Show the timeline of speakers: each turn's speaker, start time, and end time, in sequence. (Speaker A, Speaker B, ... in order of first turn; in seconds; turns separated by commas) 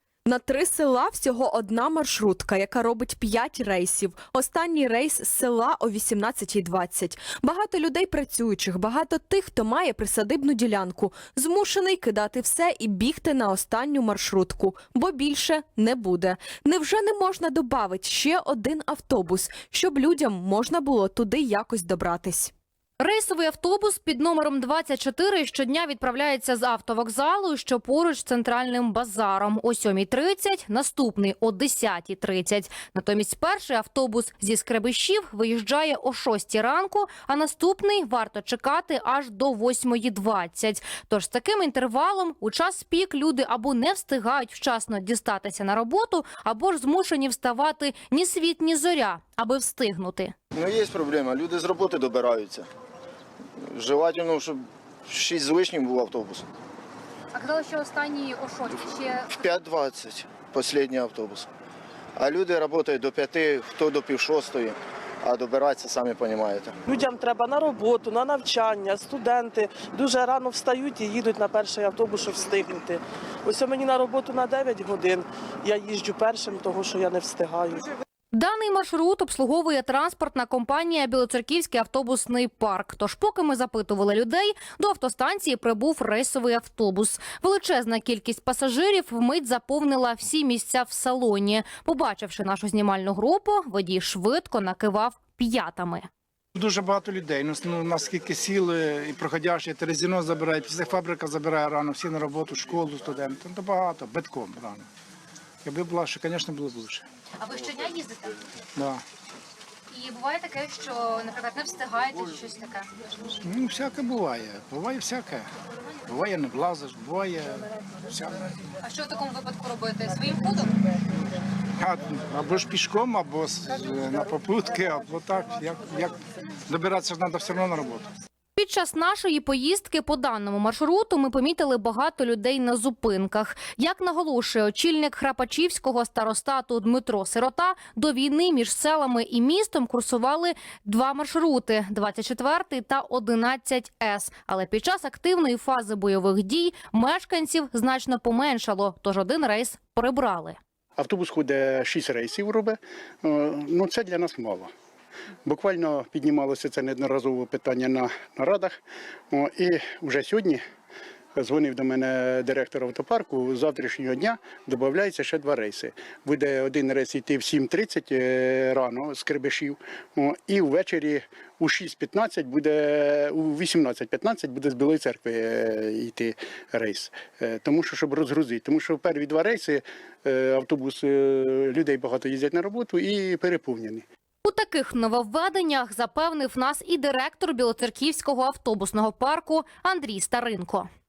Speaker A: 0.3-22.3, Speaker B: 23.0-50.3, Speaker C: 50.5-52.6, Speaker C: 53.7-56.5, Speaker B: 57.4-58.8, Speaker C: 59.2-61.5, Speaker C: 62.2-66.7, Speaker D: 66.9-77.9, Speaker B: 78.3-96.0, Speaker E: 96.5-104.9, Speaker E: 105.6-107.0, Speaker B: 107.5-108.3, Speaker E: 108.8-109.0, Speaker B: 109.9-112.8, Speaker E: 113.4-115.5, Speaker E: 116.1-118.4, Speaker B: 118.9-120.7, Speaker E: 121.8-126.2, Speaker E: 126.7-128.1, Speaker B: 128.6-150.6, Speaker F: 151.0-154.7, Speaker F: 155.4-158.8, Speaker F: 159.3-160.6, Speaker F: 161.3-184.0, Speaker B: 184.4-190.9